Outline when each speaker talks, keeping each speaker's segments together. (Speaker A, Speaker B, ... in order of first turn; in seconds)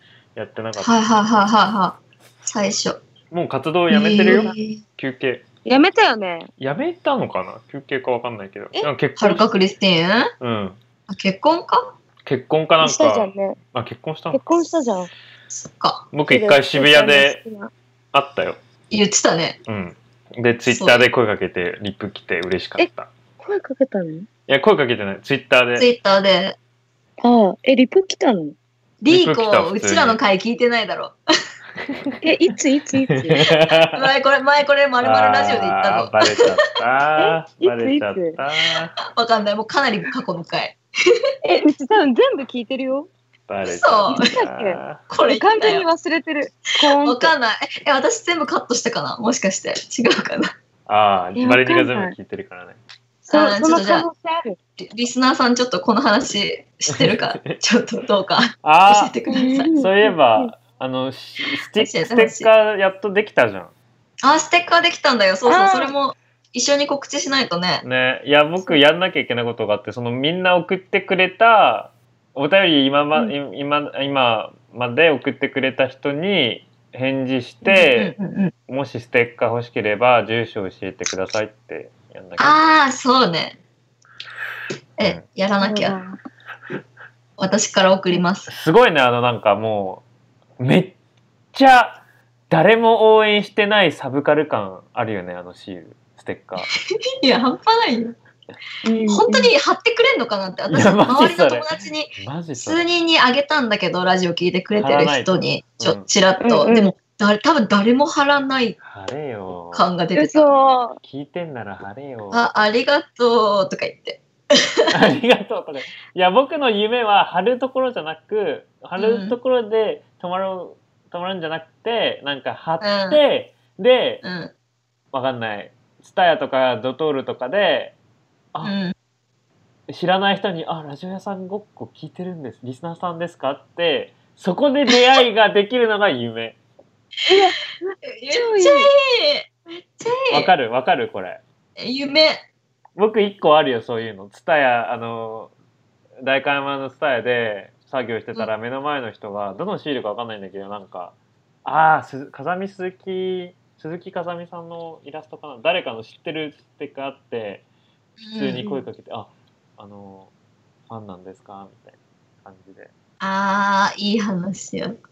Speaker A: 0.3-1.0, 3.3-5.4, 6.6-9.4, 10.4-10.8, 12.2-15.0, 16.1-17.4, 18.1-18.6, 19.7-23.1, 24.5-25.9, 29.1-30.2, 31.9-32.2, 33.1-34.0, 35.0-38.9, 43.5-45.0, 50.9-52.8, 56.9-57.6, 58.6-59.1, 59.8-63.7, 67.8-78.1, 78.7-82.6, 88.5-90.0, 90.6-91.0, 91.5-96.7, 100.7-102.8, 104.8-106.1, 108.8-109.9, 111.0-112.4, 114.9-124.2, 125.1-127.9, 129.9-136.6, 140.3-141.4, 142.9-145.5, 146.2-157.6, 158.3-160.3, 160.9-162.9
Speaker B: 0.8-3.0, 3.9-4.8, 9.2-10.3, 11.1-11.9, 15.5-16.1, 18.9-19.6, 20.6-21.0, 25.8-26.6, 29.0-31.1, 33.9-36.5, 39.1-40.8, 43.7-44.3, 45.1-45.8, 46.8-50.5, 53.3-54.0, 54.8-59.8, 61.8-62.5, 64.2-67.8, 77.7-78.5, 82.4-83.5, 85.0-86.0, 87.4-88.5, 97.2-98.1, 99.1-108.8, 109.7-110.5, 112.3-114.9, 119.0-119.3, 122.8-123.2, 124.2-124.5, 128.6-128.9, 138.1-140.5, 141.8-142.4, 158.2-158.7, 163.2-165.0
Speaker C: 4.2-4.6, 5.6-6.5, 12.8-13.6, 14.3-15.1, 16.3-17.7, 23.4-24.3, 27.2-28.6, 32.2-33.4, 37.2-38.4, 41.4-43.1, 44.1-47.3, 51.4-52.1, 53.2-54.6, 59.3-60.5, 65.5-65.9, 85.6-86.2, 98.8-99.5, 106.4-106.9, 110.2-111.0, 137.3-137.6, 138.3-138.9